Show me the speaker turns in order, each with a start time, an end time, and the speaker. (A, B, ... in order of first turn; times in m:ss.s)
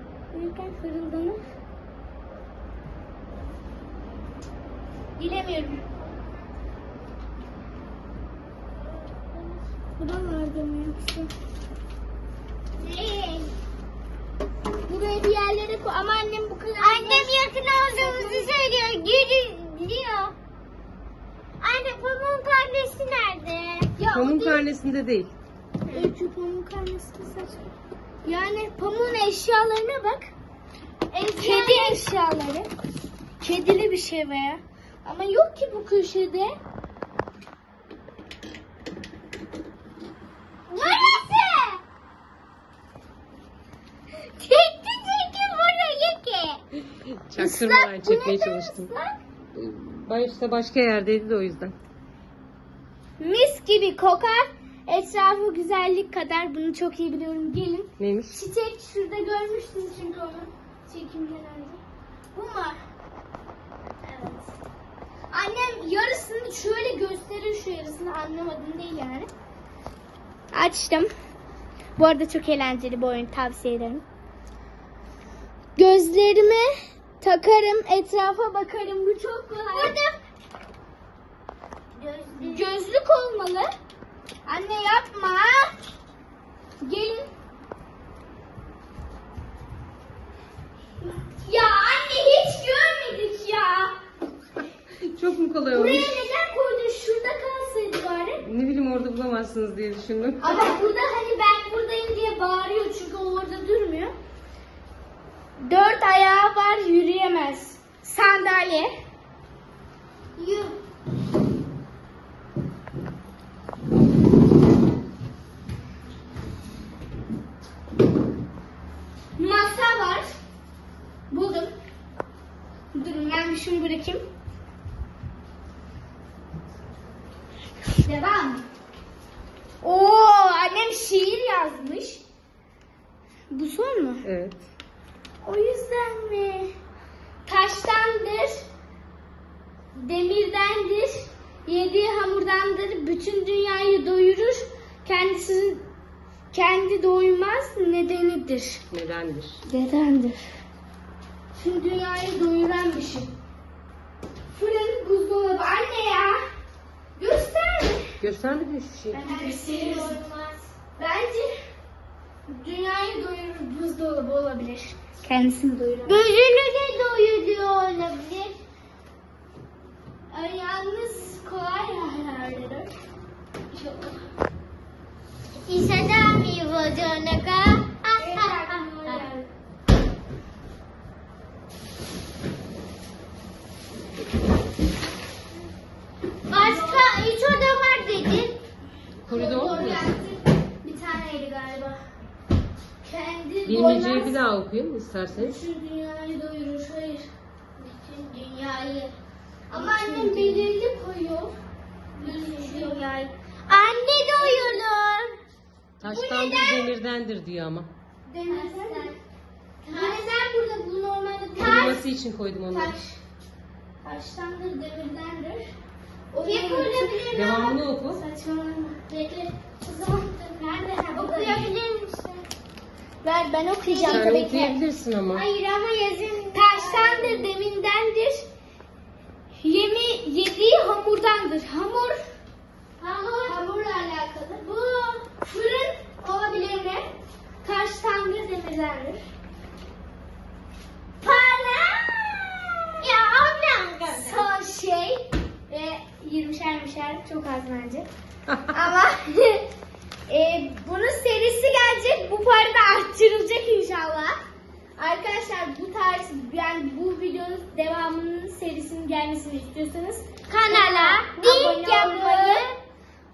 0:00.3-0:01.4 A
0:05.2-0:05.8 A
0:09.1-0:09.6 B
0:10.0-0:11.3 A
0:12.8-0:13.5 B
0:14.9-0:18.5 A
0:16.8-0:20.4 B
0:21.6-0:23.9 B
0:24.0-0:24.7 A
0:24.1-0:25.3 C
0:25.9-0:27.6 A
0:28.2-0:30.3 A
0:31.1-0:32.0 B
0:31.3-0:32.7 A
0:33.4-0:36.5 A
0:40.7-0:41.8 B
0:40.8-0:41.4 A
0:44.4-0:46.6 B
0:47.3-0:48.9 C
0:47.4-0:49.1 A
0:49.5-0:51.7 C
0:53.2-1:01.8 A
0:58.0-0:58.4 C
1:02.3-1:02.8 A
1:04.0-1:04.5 A
1:05.3-1:09.3 A
1:10.5-1:11.1 A
1:12.0-1:14.0 A
1:15.8-1:16.7 A
1:17.2-1:20.0 A
1:19.7-1:20.2 B
1:22.0-1:22.7 B
1:22.4-1:23.7 A
1:24.5-1:25.7 A
1:26.8-1:27.3 A
1:31.2-1:34.0 A
1:35.0-1:36.1 C
1:35.7-1:38.4 A
1:38.4-1:40.4 C
1:40.4-1:44.1 A
1:40.5-1:40.8 B
1:45.6-1:48.9 A
1:50.4-1:50.8 B
1:59.4-2:00.3 A
2:01.3-2:01.7 A
2:02.9-2:04.2 A
2:08.0-2:08.6 A
2:09.8-2:12.2 A
2:13.5-2:14.3 A
2:14.2-2:14.6 C
2:15.4-2:16.7 A
2:17.5-2:18.6 A
2:20.0-2:25.8 A
2:26.5-2:28.8 A
2:28.9-2:29.6 C
2:29.7-2:30.5 A
2:31.6-2:33.3 A
2:34.5-2:36.4 A
2:37.2-2:38.1 A
2:38.2-2:39.2 C
2:39.1-2:40.2 A
2:39.3-2:40.6 B
2:41.0-2:41.5 A
2:42.5-2:46.2 A
2:46.0-2:48.6 B
2:50.3-2:52.9 A
2:53.7-2:54.2 A
2:55.6-2:59.2 B
2:58.2-2:59.5 A
3:06.5-3:08.6 B
3:06.6-3:07.1 A
3:09.2-3:10.1 C
3:09.3-3:12.0 A
3:13.0-3:14.4 A
3:13.7-3:15.6 C
3:15.3-3:17.3 A
3:17.8-3:19.2 B
3:19.7-3:21.6 A
3:19.7-3:20.7 B
3:22.2-3:23.0 A
3:22.2-3:25.3 B
3:24.3-3:24.8 A
3:26.0-3:27.9 C
3:26.0-3:26.9 A
3:28.3-3:29.1 A
3:28.5-3:29.2 B
3:29.8-3:30.3 B
3:29.9-3:32.0 A
3:31.6-3:33.0 C
3:32.7-3:33.2 A
3:34.0-3:35.7 A
3:36.3-3:39.3 A
3:36.4-3:37.8 B
3:37.3-3:38.2 C
3:39.2-3:39.5 B
3:39.8-3:40.5 A
3:40.4-3:42.5 B
3:41.1-3:41.7 A
3:43.2-3:44.8 A
3:43.8-3:44.4 B
3:44.1-3:45.4 C
3:45.3-3:47.5 B
3:46.5-3:48.5 A
3:49.6-3:52.2 A
3:53.0-3:53.6 B
3:53.4-3:57.1 A
3:57.6-3:59.2 A
4:01.2-4:02.9 A
4:03.0-4:04.4 B
4:04.1-4:08.1 A
4:08.7-4:09.6 A
4:10.3-4:14.4 A
4:15.0-4:22.7 A
4:20.5-4:22.8 B